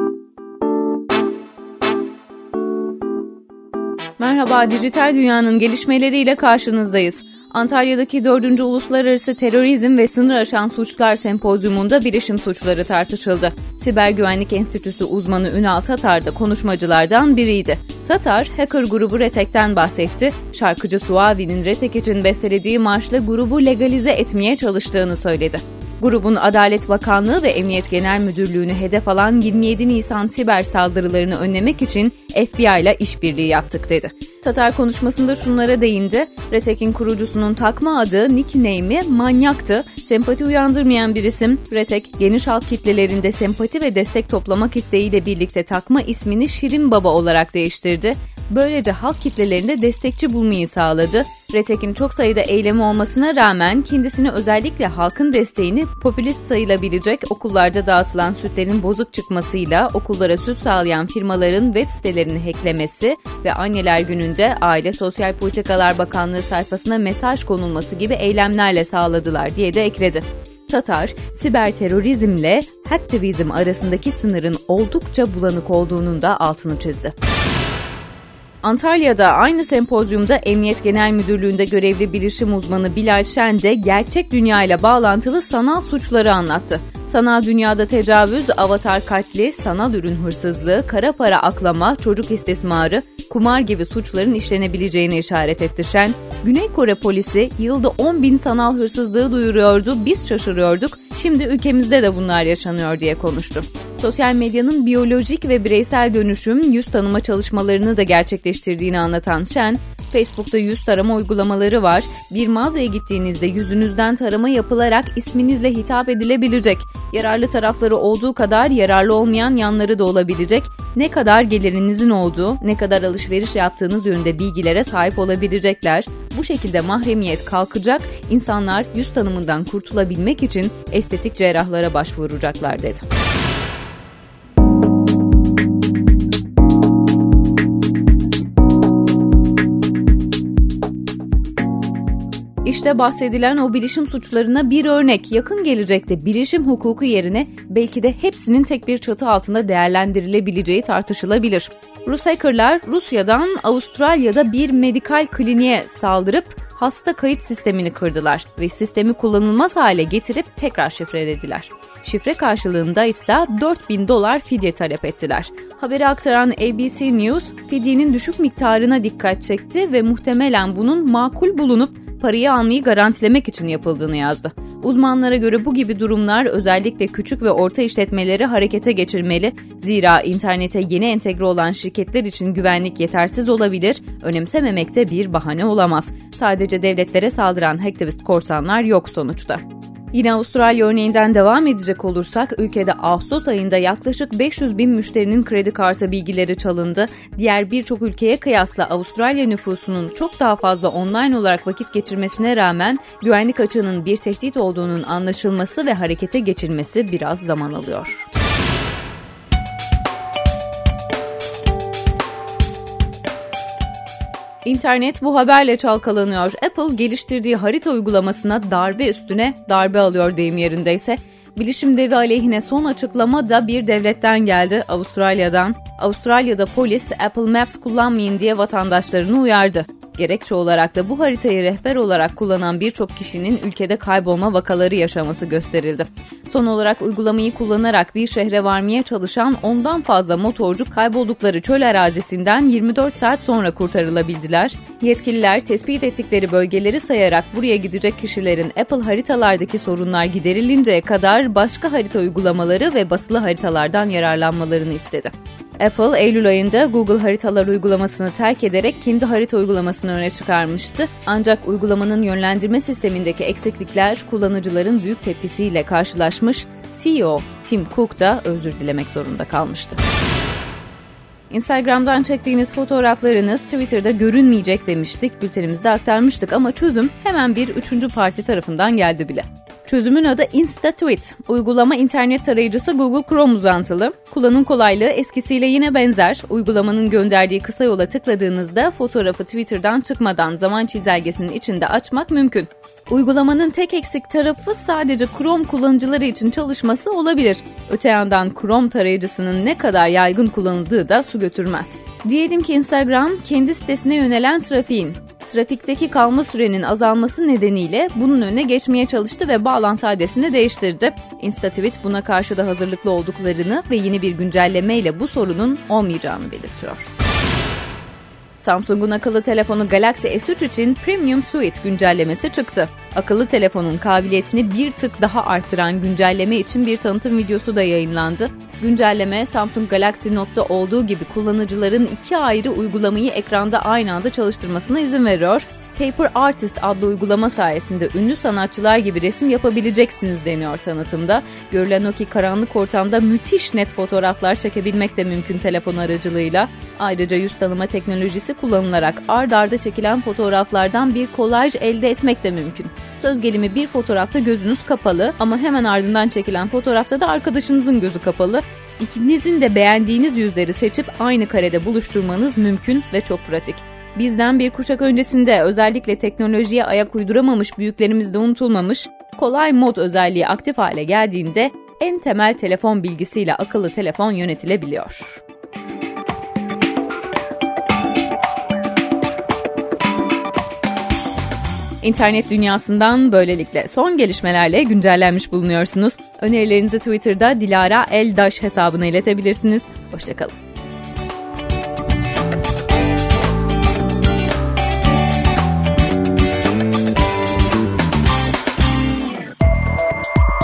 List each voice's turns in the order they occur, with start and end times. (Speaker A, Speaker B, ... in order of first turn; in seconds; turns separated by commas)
Speaker A: 4.2-77.1, Speaker A: 78.6-133.0, Speaker A: 142.6-208.3, Speaker A: 214.6-270.0, Speaker A: 271.5-317.1, Speaker A: 318.6-375.4, Speaker A: 382.0-390.5